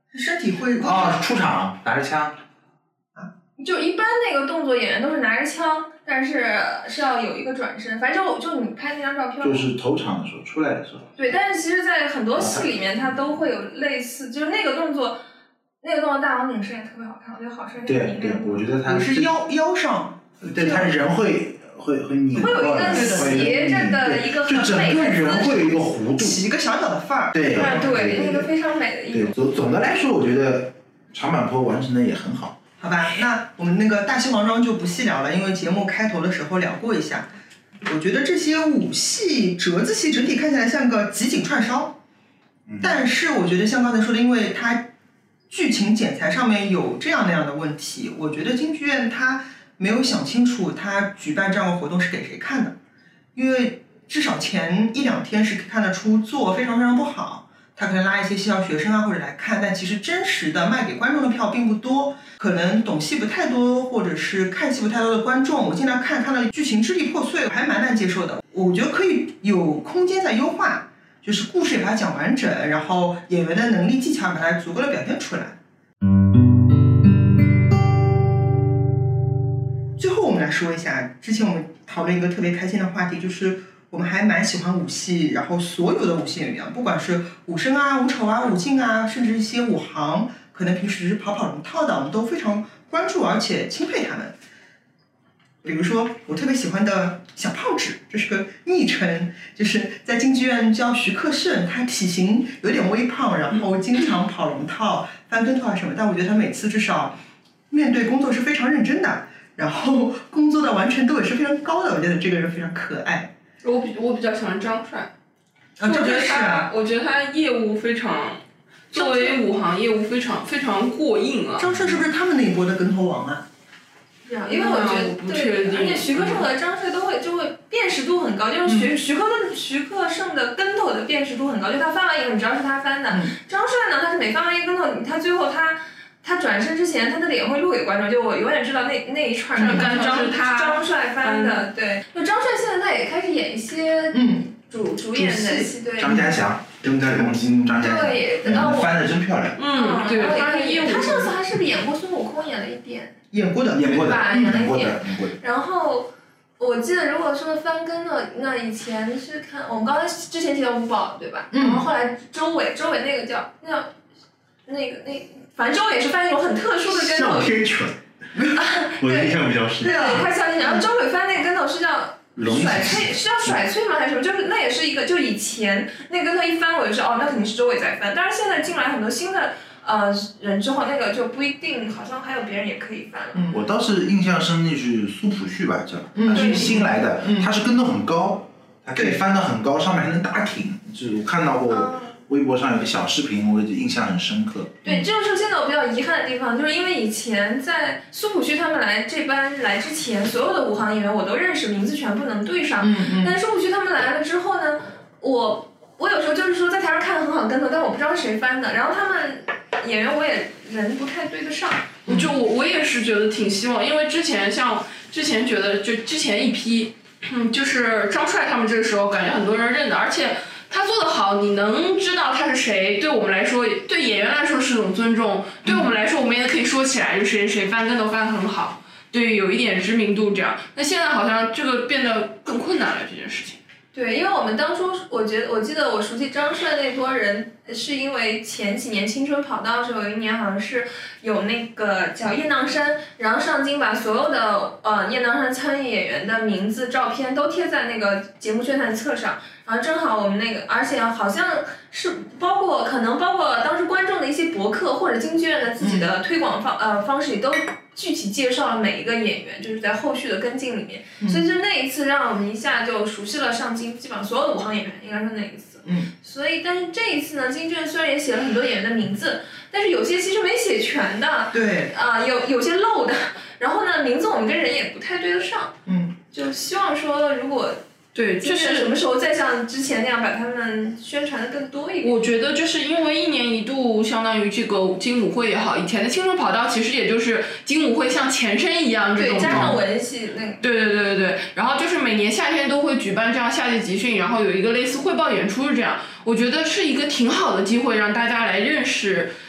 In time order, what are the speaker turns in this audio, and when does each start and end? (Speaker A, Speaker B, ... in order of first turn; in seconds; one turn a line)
Speaker A: 0.1-1.2
Speaker B: 0.8-2.4
Speaker C: 3.6-9.7
Speaker B: 9.4-11.1
Speaker C: 11.2-15.2
Speaker B: 12.3-13.4
Speaker C: 15.8-18.7
Speaker B: 17.9-19.3
Speaker A: 18.9-20.9
Speaker B: 20.4-26.4
Speaker C: 22.3-25.8
Speaker A: 22.4-23.6
Speaker A: 26.2-27.9
Speaker B: 27.3-28.5
Speaker C: 27.5-29.4
Speaker B: 29.1-32.6
Speaker A: 32.8-37.3
Speaker A: 37.9-42.0
Speaker B: 42.7-43.0
Speaker A: 42.8-44.9
Speaker A: 45.5-52.8
Speaker A: 53.4-75.6
Speaker A: 80.0-94.3
Speaker A: 95.6-107.2
Speaker A: 107.7-113.3
Speaker D: 113.6-115.1
Speaker A: 115.8-116.7
Speaker D: 115.8-121.7
Speaker C: 118.9-119.3
Speaker A: 121.6-123.4
Speaker B: 121.7-122.0
Speaker C: 124.3-146.5
Speaker D: 124.4-126.5
Speaker A: 128.7-128.9
Speaker A: 139.6-139.9
Speaker D: 139.6-141.7
Speaker A: 144.1-144.5
Speaker A: 145.1-145.8
Speaker B: 146.0-149.6
Speaker E: 146.8-147.7
Speaker A: 147.0-147.8
Speaker C: 147.7-148.9
Speaker A: 148.5-148.7
Speaker D: 149.6-151.3
Speaker C: 149.7-153.2
Speaker A: 153.3-154.7
Speaker B: 153.7-155.4
Speaker C: 153.9-163.9
Speaker A: 161.5-161.9
Speaker C: 164.7-167.6
Speaker E: 166.9-168.0
Speaker C: 168.5-183.5
Speaker E: 169.0-170.2
Speaker A: 169.8-170.8
Speaker B: 172.4-173.1
Speaker E: 172.5-173.0
Speaker A: 183.3-183.7
Speaker B: 183.5-194.8
Speaker A: 186.2-187.5
Speaker C: 186.3-186.9
Speaker C: 191.7-192.2
Speaker C: 194.8-211.9
Speaker A: 202.8-203.4
Speaker D: 212.1-233.6
Speaker C: 233.9-275.8
Speaker A: 255.8-256.1
Speaker A: 265.8-266.1
Speaker A: 271.5-271.9
Speaker A: 275.9-276.1
Speaker C: 276.3-277.8
Speaker D: 278.1-278.9
Speaker C: 278.4-282.1
Speaker D: 282.0-289.8
Speaker C: 289.2-290.6
Speaker A: 289.4-289.7
Speaker D: 290.6-299.3